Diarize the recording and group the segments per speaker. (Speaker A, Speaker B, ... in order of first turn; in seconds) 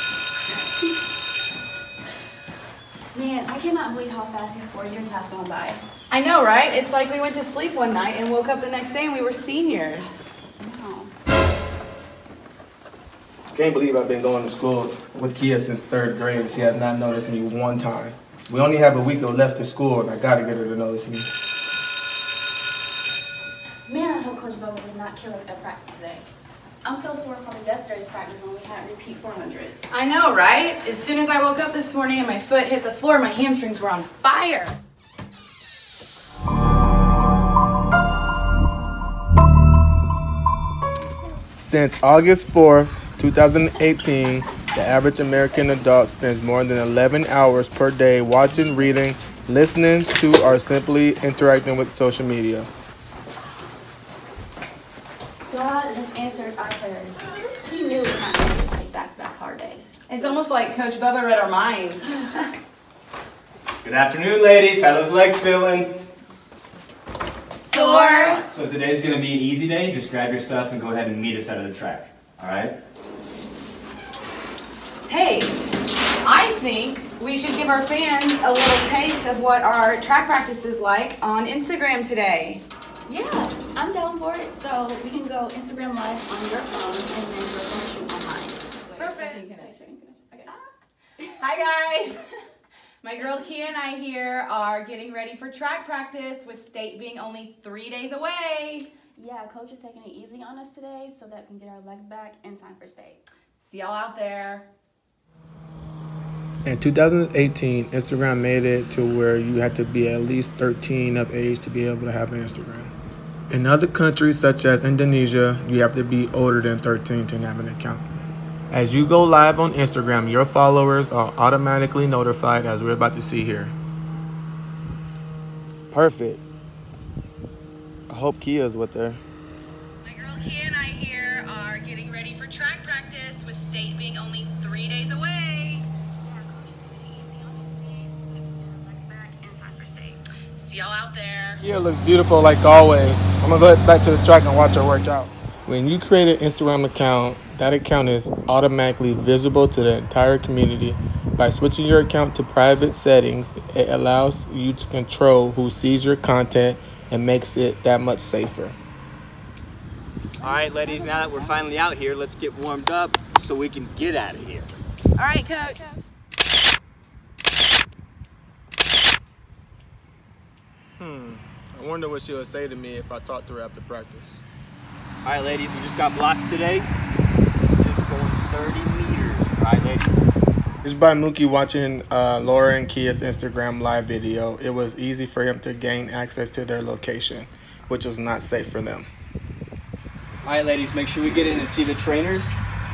Speaker A: 0.5-0.9, 3.1-5.8, 10.6-11.1, 23.9-26.3, 26.8-29.9, 55.5-59.9, 67.7-68.4, 83.1-90.5, 93.2-93.5, 99.1-103.2, 136.2-140.2, 160.4-161.6
Speaker B: 6.1-10.3, 29.9-34.8, 60.1-62.3, 67.7-68.4, 75.1-75.6, 76.2-82.6, 89.0-89.7, 91.2-92.2, 93.0-98.9, 103.6-104.7, 130.0-135.9, 140.6-141.6, 165.2-165.8
Speaker C: 13.5-21.3, 41.6-52.7, 106.6-112.9, 113.5-118.0, 118.7-123.7, 125.9-126.4, 128.1-129.2, 141.6-158.8, 171.0-174.4, 180.8-189.1
Speaker D: 63.8-65.9, 67.7-72.7, 160.4-164.8, 175.2-176.9, 177.8-180.3, 190.4-192.6